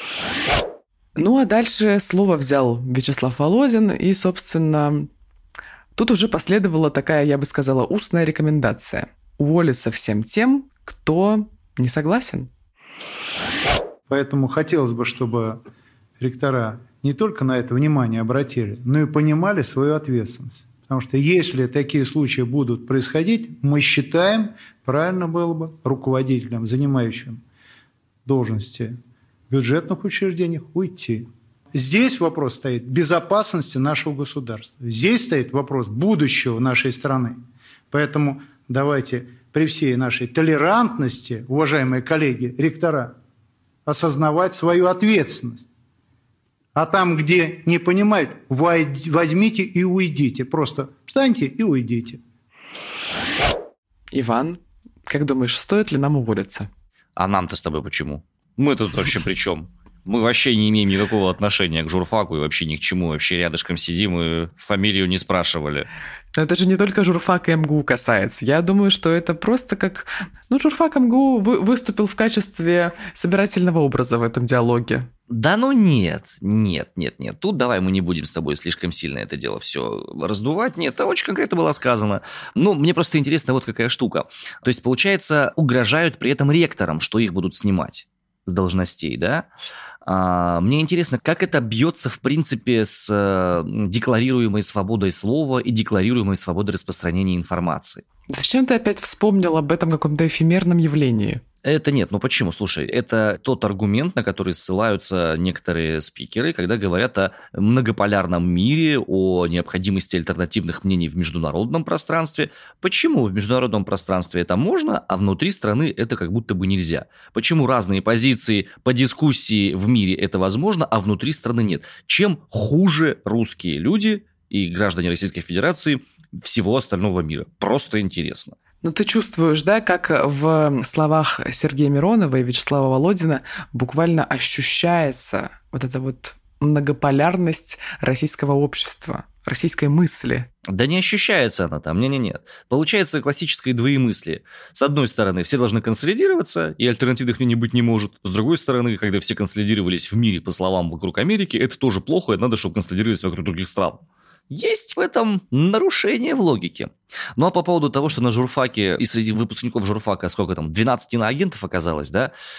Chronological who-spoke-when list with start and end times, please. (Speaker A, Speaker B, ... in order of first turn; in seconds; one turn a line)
Speaker A: 1.1-5.1
Speaker A: 6.0-12.5
Speaker B: 14.1-15.6
Speaker B: 16.2-27.4
Speaker B: 28.2-28.9
Speaker B: 29.5-37.4
Speaker B: 37.9-43.1
Speaker B: 43.9-45.7
Speaker B: 46.8-52.2
Speaker A: 54.1-56.7
Speaker C: 57.1-65.9
Speaker A: 66.3-75.1
Speaker C: 75.3-89.5
Speaker C: 90.0-98.0
Speaker A: 98.3-101.4
Speaker C: 101.6-128.6
Speaker A: 128.8-140.5
Speaker C: 140.7-162.3